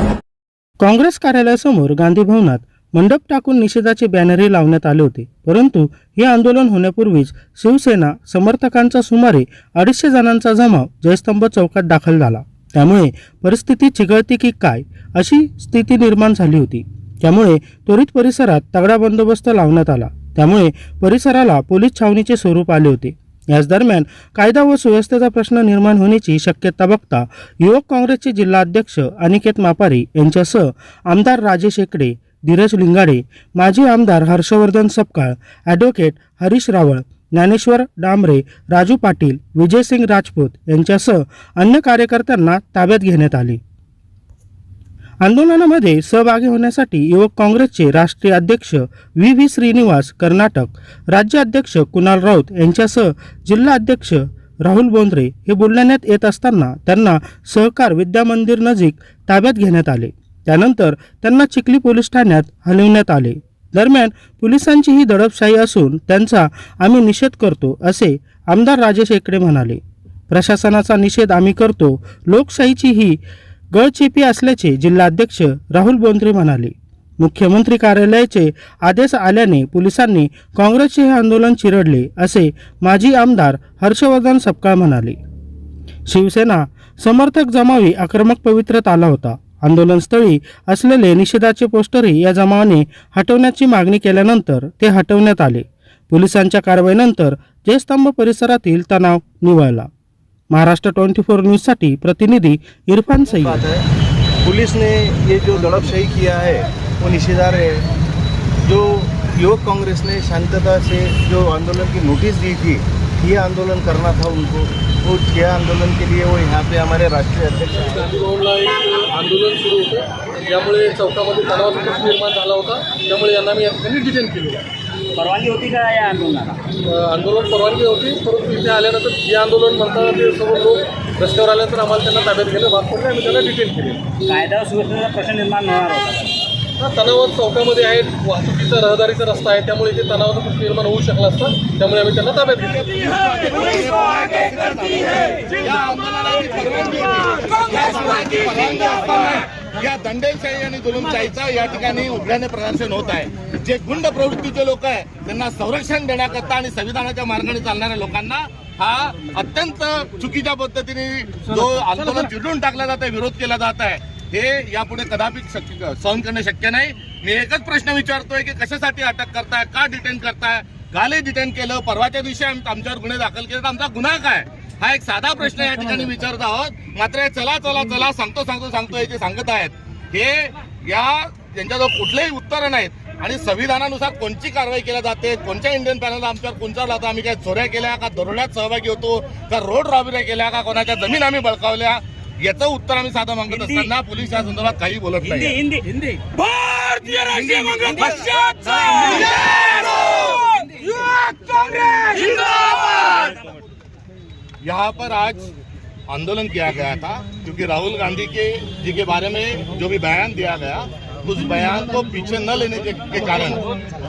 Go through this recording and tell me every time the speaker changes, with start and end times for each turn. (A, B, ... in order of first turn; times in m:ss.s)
0:00.8-0:43.6 A
0:45.2-1:09.8 A
1:10.3-1:13.2 A
1:13.7-1:25.2 A
1:26.1-1:39.9 A
1:40.5-1:43.6 A
1:43.4-1:43.8 B
1:44.4-1:47.8 B
1:48.6-1:58.1 B
1:58.1-2:04.6 C
2:05.2-2:06.6 D
2:07.1-2:14.1 C
2:14.2-2:16.4 D
2:16.9-2:22.6 C
2:22.9-3:15.6 E
3:13.6-3:13.8 D
3:15.3-3:18.7 D
3:17.4-3:18.0 E
3:18.8-3:19.6 E
3:19.6-3:21.3 D
3:21.7-3:22.9 E
3:24.6-3:25.5 E
3:26.1-3:33.6 E